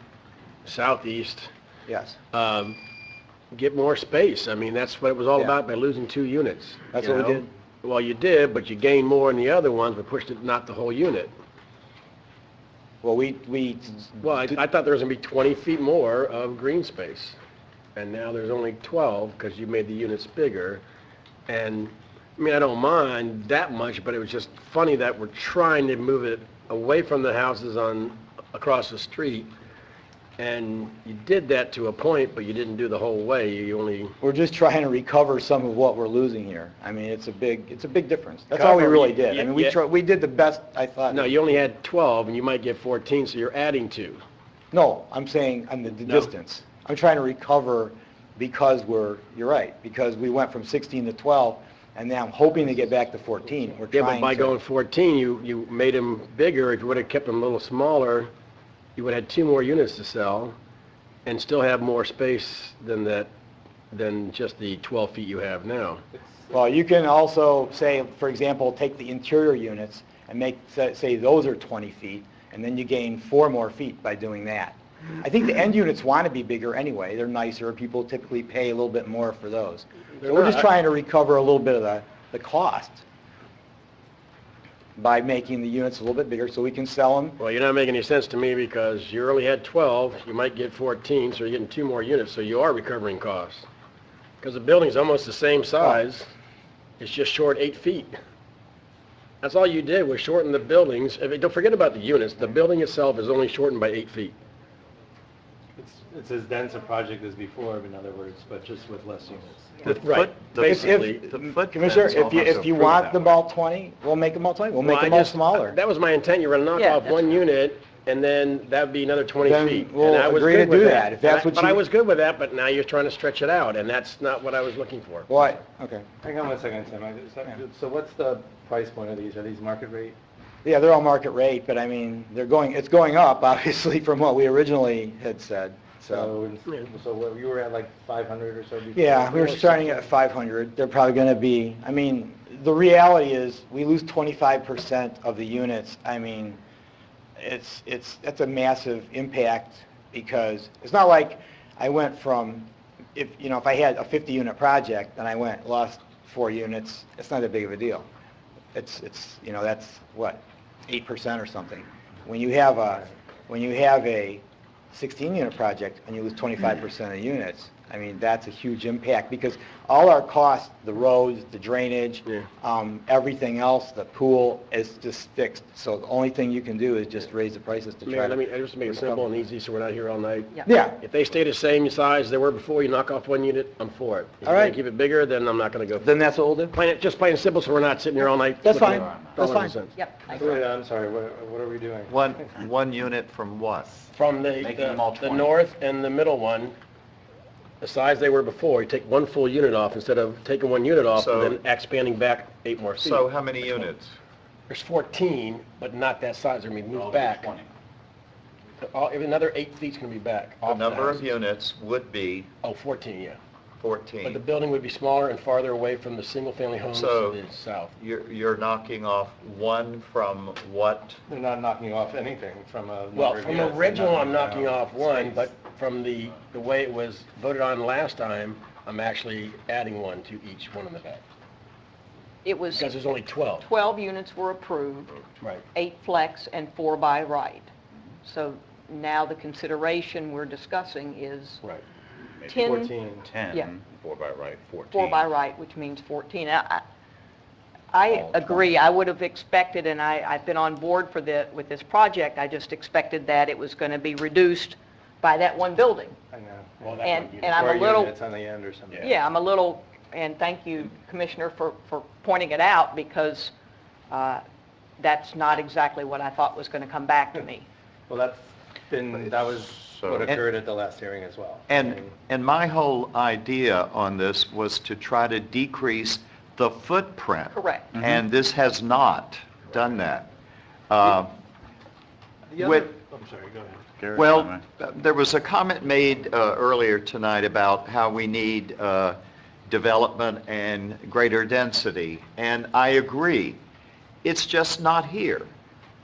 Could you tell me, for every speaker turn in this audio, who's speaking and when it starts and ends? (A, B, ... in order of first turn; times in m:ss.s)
0:00.6-0:01.5 A
0:01.9-0:02.2 B
0:02.3-0:02.8 A
0:03.5-0:11.3 A
0:06.9-0:07.5 B
0:13.0-0:14.6 B
0:14.2-0:17.4 A
0:18.0-0:20.8 A
0:21.5-0:29.5 A
0:30.4-0:34.1 A
0:34.2-0:41.3 B
0:38.5-0:39.8 A
0:41.1-0:44.2 A
0:44.7-0:54.6 B
0:53.9-0:58.3 A
0:59.0-1:00.6 A
1:01.3-1:03.3 A
1:03.9-1:06.0 A
1:06.1-1:06.5 C
1:06.5-1:23.0 B
1:20.2-1:20.7 A
1:25.0-1:27.4 B
1:27.4-1:33.7 A
1:34.4-1:36.3 A
1:37.0-1:38.1 A
1:39.4-1:44.3 A
1:45.8-1:49.8 C
1:49.8-1:53.4 D
1:49.8-1:51.3 A
1:50.6-1:55.8 B
1:54.8-2:05.5 A
1:56.8-1:57.2 E
1:59.4-2:01.8 B
2:05.3-2:06.1 B
2:06.2-2:10.2 C
2:10.6-2:16.3 B
2:16.1-2:20.1 C
2:18.9-2:26.6 B
2:27.4-2:38.1 B
2:38.7-2:59.2 B
2:58.0-3:06.1 A
3:00.7-3:01.0 B
3:04.4-3:04.8 B
3:06.0-3:06.8 B
3:06.7-3:10.0 A
3:08.6-3:09.7 B
3:10.0-3:10.6 E
3:10.3-3:12.1 C
3:12.1-3:14.0 D
3:14.1-3:16.8 A
3:14.8-3:15.4 F
3:17.8-3:23.2 A
3:21.2-3:21.6 D
3:23.0-3:24.2 D
3:24.7-3:27.5 A
3:28.8-3:31.3 A
3:30.6-3:32.5 D
3:32.6-3:33.4 A
3:33.8-3:34.4 D
3:34.2-3:37.9 A
3:36.9-3:37.4 D
3:38.0-3:41.2 D
3:41.3-3:45.5 C
3:43.1-3:51.2 A
3:52.4-3:52.9 E
3:52.8-3:53.7 A
3:53.6-3:55.2 E
3:55.7-3:57.7 E
3:58.2-4:01.6 E
4:02.4-4:03.7 E
4:02.5-4:02.7 F
4:02.7-4:03.1 C
4:03.3-4:05.1 F
4:04.9-4:06.8 E
4:07.9-4:16.2 E
4:16.3-4:19.2 C
4:16.8-4:17.8 A
4:17.0-4:18.2 E
4:19.0-4:23.5 E
4:24.1-4:24.4 E
4:25.0-4:27.7 E
4:28.1-4:32.1 C
4:29.5-4:30.4 D
4:31.7-4:40.3 D
4:37.5-4:37.9 E
4:40.9-4:41.4 D
4:42.5-4:43.8 C
4:42.6-4:42.9 D
4:44.0-4:44.3 F
4:44.1-4:53.6 D
4:54.2-4:55.5 D